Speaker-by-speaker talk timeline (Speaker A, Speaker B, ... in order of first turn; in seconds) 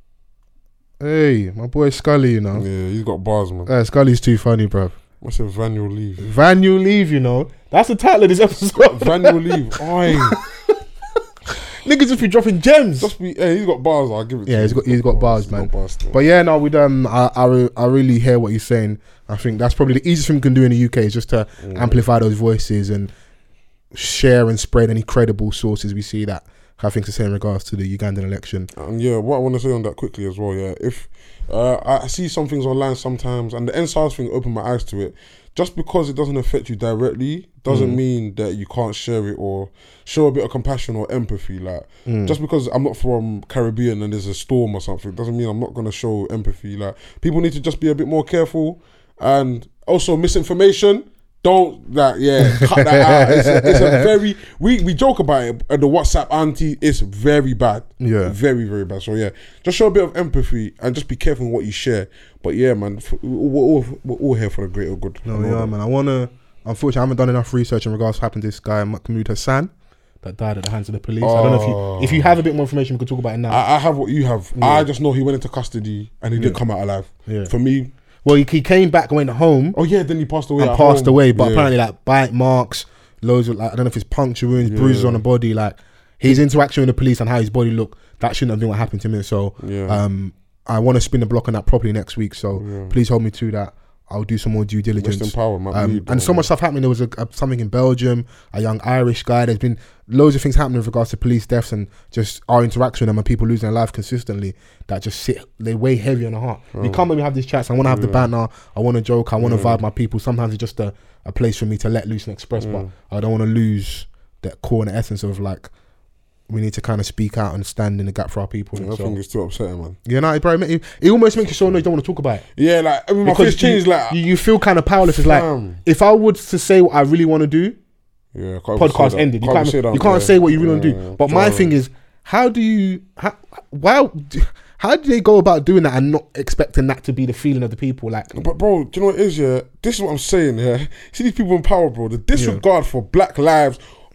Speaker A: 1.0-2.6, 3.7-4.9, 6.2-9.4, 10.1-10.4, 11.8-13.1, 14.5-23.1, 23.9-28.7, 37.7-38.0, 42.0-42.4, 52.4-54.0, 58.0-58.3, 65.2-69.7, 70.2-73.6, 74.5-74.9, 78.2-79.8, 80.6-115.7, 116.5-119.2, 120.0-122.4, 123.2-127.8, 128.8-138.3, 142.3-142.6
Speaker B: 2.5-3.7, 5.2-6.3, 8.8-10.4, 13.0-16.2, 21.6-22.0, 28.7-65.7, 71.2-72.3, 73.5-77.9, 79.7-81.7, 84.6-85.2, 89.6-90.0, 92.5-93.0, 95.0-96.5, 106.7-107.0, 107.8-108.3, 109.4-109.8, 112.6-112.9, 118.8-120.0, 122.5-124.2, 125.0-125.8, 128.3-131.7, 138.3-143.8